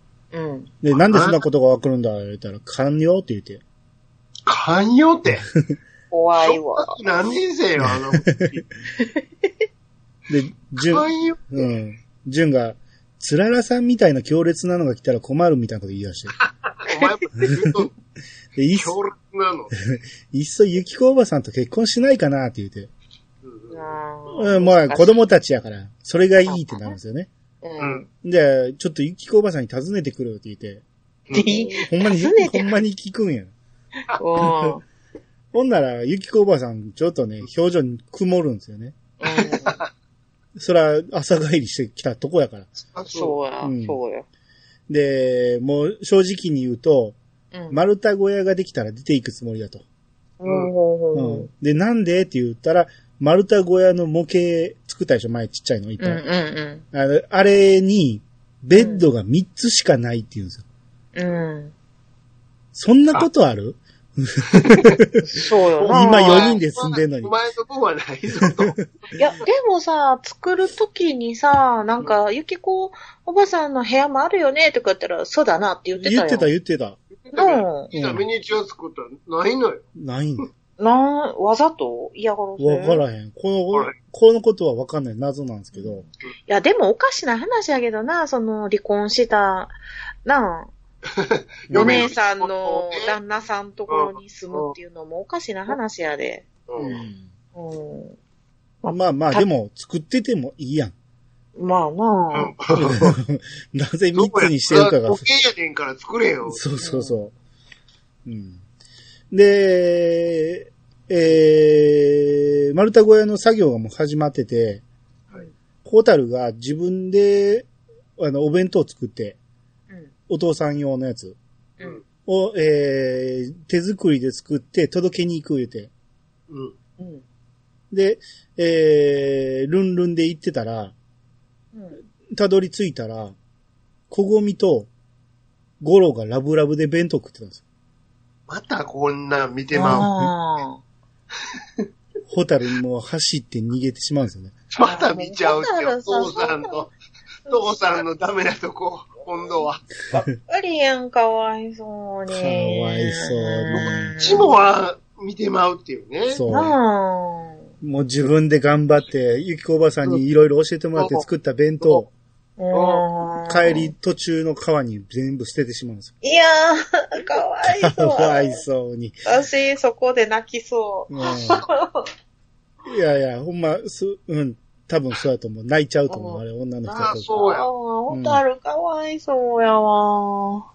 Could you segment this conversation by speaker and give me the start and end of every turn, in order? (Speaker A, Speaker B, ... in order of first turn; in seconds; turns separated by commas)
Speaker A: 0.3-0.7, Speaker B: 0.8-3.6, Speaker C: 0.9-1.4, Speaker C: 4.5-5.5, Speaker A: 6.1-7.0, Speaker C: 6.4-8.7, Speaker B: 7.8-8.5, Speaker A: 9.0-9.5, Speaker B: 10.3-16.4, Speaker C: 10.8-11.7, Speaker C: 16.7-17.9, Speaker B: 17.4-17.7, Speaker B: 18.5-18.9, Speaker C: 18.7-19.8, Speaker B: 19.9-22.9, Speaker C: 23.4-23.9, Speaker A: 23.7-25.1, Speaker B: 24.3-27.3, Speaker A: 26.4-27.0, Speaker A: 27.6-28.1, Speaker B: 28.2-30.8, Speaker C: 31.3-31.7, Speaker A: 31.3-32.7, Speaker B: 31.8-33.5, Speaker A: 34.1-34.8, Speaker B: 34.4-34.7, Speaker B: 35.5-39.0, Speaker A: 39.2-39.8, Speaker C: 39.4-39.9, Speaker B: 40.5-42.7, Speaker C: 42.9-43.4, Speaker A: 43.1-44.2, Speaker B: 43.6-44.0, Speaker B: 44.9-47.2, Speaker A: 47.5-47.8, Speaker B: 47.7-49.8, Speaker A: 50.4-51.5, Speaker C: 50.5-50.7, Speaker B: 51.1-56.2, Speaker A: 56.0-56.8, Speaker B: 56.9-60.6, Speaker A: 58.7-59.0, Speaker A: 61.1-61.7, Speaker B: 62.7-65.1, Speaker C: 64.5-65.0, Speaker A: 65.2-66.6, Speaker C: 65.8-68.9, Speaker B: 65.9-67.3, Speaker B: 68.4-68.8, Speaker A: 69.2-76.5, Speaker B: 76.0-77.0, Speaker C: 77.2-79.8, Speaker A: 77.3-77.9, Speaker B: 77.9-78.2, Speaker B: 80.0-80.5, Speaker A: 80.8-83.0, Speaker B: 82.6-86.0, Speaker A: 85.7-90.7, Speaker C: 91.1-93.1, Speaker B: 91.7-92.0, Speaker A: 91.7-98.2, Speaker C: 93.9-94.7, Speaker C: 96.7-97.0, Speaker B: 96.9-97.3, Speaker A: 98.8-99.4, Speaker B: 98.9-100.9, Speaker A: 101.5-102.5, Speaker C: 102.3-103.2, Speaker B: 102.7-105.3, Speaker C: 104.1-106.7, Speaker B: 106.5-107.3, Speaker A: 106.8-107.1, Speaker B: 108.2-108.6, Speaker B: 109.3-114.8, Speaker B: 115.8-119.4, Speaker B: 120.3-121.4, Speaker B: 122.2-125.9, Speaker C: 126.5-126.7, Speaker A: 127.0-127.2, Speaker B: 127.9-130.9, Speaker B: 132.3-133.4, Speaker B: 134.1-134.9, Speaker B: 135.8-137.6, Speaker C: 138.5-140.1, Speaker A: 139.7-140.8, Speaker B: 139.8-140.3, Speaker B: 142.3-144.5, Speaker C: 144.7-146.9, Speaker A: 144.8-146.8, Speaker A: 147.5-148.0, Speaker C: 147.5-149.8, Speaker A: 150.1-154.5, Speaker B: 152.3-154.2, Speaker C: 153.7-156.4, Speaker B: 156.3-156.8, Speaker A: 156.5-157.6, Speaker B: 157.8-162.1, Speaker C: 160.9-161.2, Speaker A: 162.6-163.9, Speaker C: 162.7-163.1, Speaker B: 163.4-166.1, Speaker A: 166.2-168.6, Speaker B: 167.6-169.2, Speaker A: 169.2-172.1, Speaker B: 171.1-171.6, Speaker B: 172.8-177.3, Speaker A: 176.1-176.4, Speaker C: 176.9-177.7, Speaker A: 177.3-180.6, Speaker B: 178.1-178.4